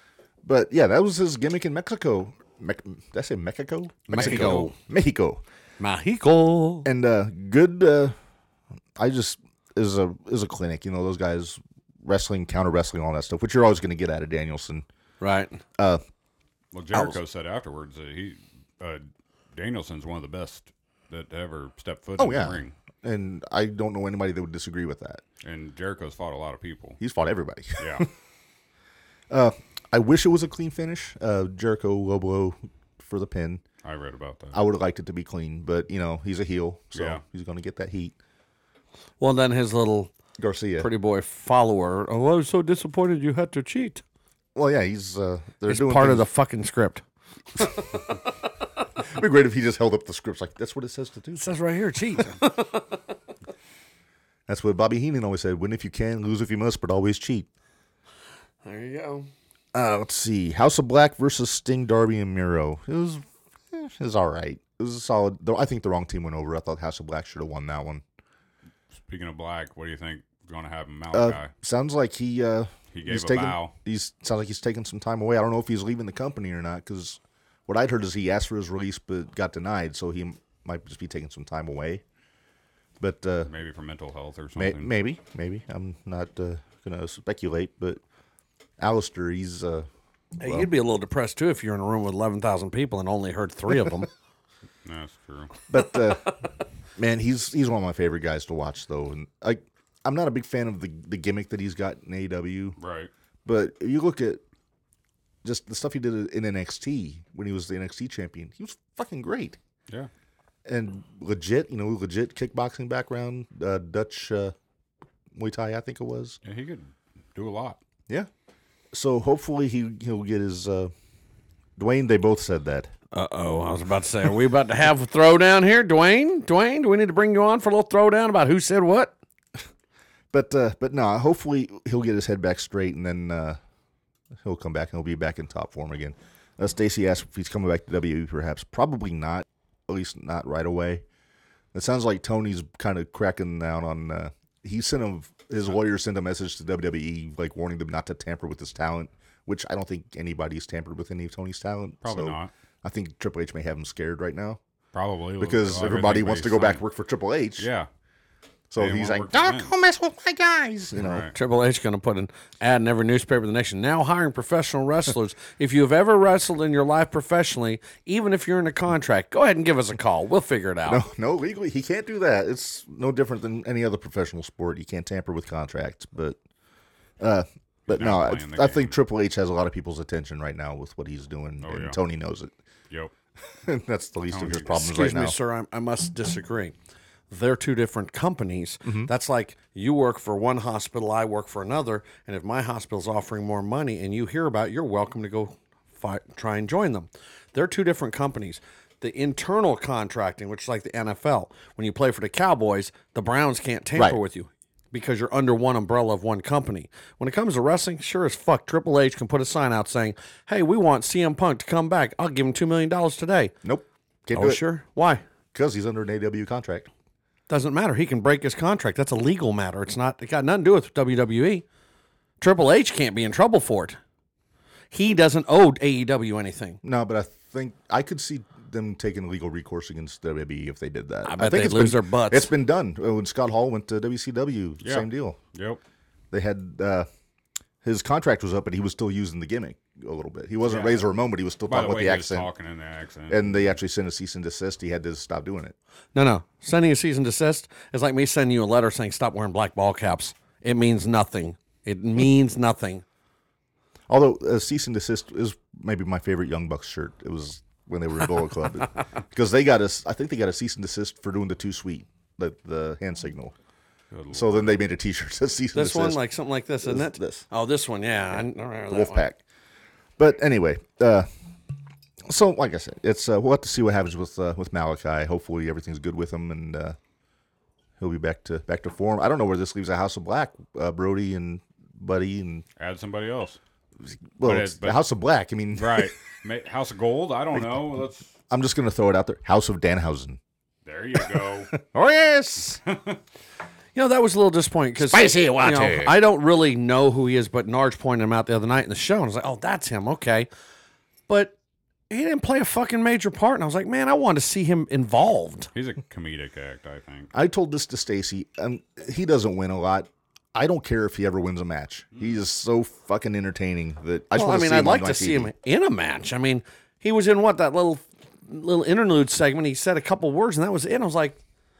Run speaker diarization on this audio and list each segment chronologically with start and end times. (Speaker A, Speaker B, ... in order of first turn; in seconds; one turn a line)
Speaker A: 0.4-5.4
Speaker B: 4.1-4.8
Speaker C: 4.2-4.7
Speaker B: 5.8-6.9
Speaker A: 6.8-8.2
Speaker A: 9.0-14.9
Speaker B: 15.2-15.6
Speaker C: 16.7-22.7
Speaker A: 16.9-17.2
Speaker A: 22.2-25.2
Speaker C: 25.4-27.0
Speaker A: 27.0-28.1
Speaker C: 27.8-28.1
Speaker A: 29.3-33.6
Speaker C: 33.8-34.6
Speaker A: 34.5-38.1
Speaker C: 36.9-37.2
Speaker B: 39.2-40.1
Speaker A: 40.4-40.9
Speaker B: 40.8-44.0
Speaker A: 44.5-46.3
Speaker B: 45.7-47.0
Speaker B: 47.6-47.9
Speaker A: 49.0-51.5
Speaker B: 51.3-52.9
Speaker A: 54.5-57.5
Speaker B: 58.6-59.3
Speaker A: 59.7-68.0
Speaker C: 69.1-71.5
Speaker A: 71.1-82.0
Speaker C: 72.9-73.7
Speaker A: 83.0-83.5
Speaker C: 83.5-84.9
Speaker A: 84.6-88.0
Speaker A: 88.8-89.9
Speaker B: 90.4-94.1
Speaker A: 90.4-90.7
Speaker C: 94.8-95.6
Speaker A: 95.7-96.4
Speaker A: 97.0-102.8
Speaker C: 102.8-103.1
Speaker A: 103.5-104.4
Speaker A: 105.4-109.6
Speaker A: 110.7-114.5
Speaker A: 115.3-116.4
Speaker C: 116.4-117.8
Speaker A: 118.9-120.9
Speaker A: 121.8-122.9
Speaker B: 123.1-129.2
Speaker A: 130.3-133.6
Speaker A: 134.4-141.1
Speaker A: 141.7-154.6
Speaker C: 152.0-152.5
Speaker C: 154.9-156.8
Speaker A: 155.4-157.7
Speaker C: 157.6-157.9
Speaker A: 158.7-161.3
Speaker C: 158.8-159.7
Speaker C: 161.0-161.3
Speaker B: 161.3-171.0
Speaker A: 170.9-176.4
Speaker A: 177.2-182.5
Speaker C: 177.9-178.9
Speaker C: 181.6-182.0
Speaker A: 183.6-185.4
Speaker C: 184.3-184.9
Speaker B: 184.8-186.8
Speaker B: 187.3-213.5
Speaker A: 188.8-189.1
Speaker A: 213.6-214.6
Speaker B: 214.3-215.2
Speaker A: 215.5-216.9
Speaker B: 217.5-221.7
Speaker B: 222.4-224.0
Speaker B: 224.9-226.8
Speaker A: 226.8-235.4
Speaker B: 231.2-232.5
Speaker C: 234.8-235.8
Speaker A: 236.3-237.1
Speaker A: 237.8-242.5
Speaker C: 240.7-241.0
Speaker C: 241.7-243.7
Speaker A: 243.3-245.8
Speaker B: 246.2-253.0
Speaker A: 254.1-263.5
Speaker C: 264.1-264.8
Speaker A: 264.3-266.2
Speaker B: 265.7-269.3
Speaker A: 266.8-267.4
Speaker A: 268.9-269.4
Speaker A: 270.2-271.3
Speaker A: 272.3-277.0
Speaker A: 278.0-282.6
Speaker C: 282.8-283.6
Speaker A: 284.4-286.1
Speaker C: 284.4-285.0
Speaker C: 285.7-288.3
Speaker A: 288.5-290.4
Speaker C: 290.9-291.8
Speaker A: 291.2-292.8
Speaker C: 292.8-293.2
Speaker B: 293.9-300.5
Speaker A: 295.0-296.1
Speaker B: 301.3-301.6
Speaker B: 302.1-305.7
Speaker C: 305.7-307.3
Speaker A: 307.3-315.5
Speaker B: 314.3-321.4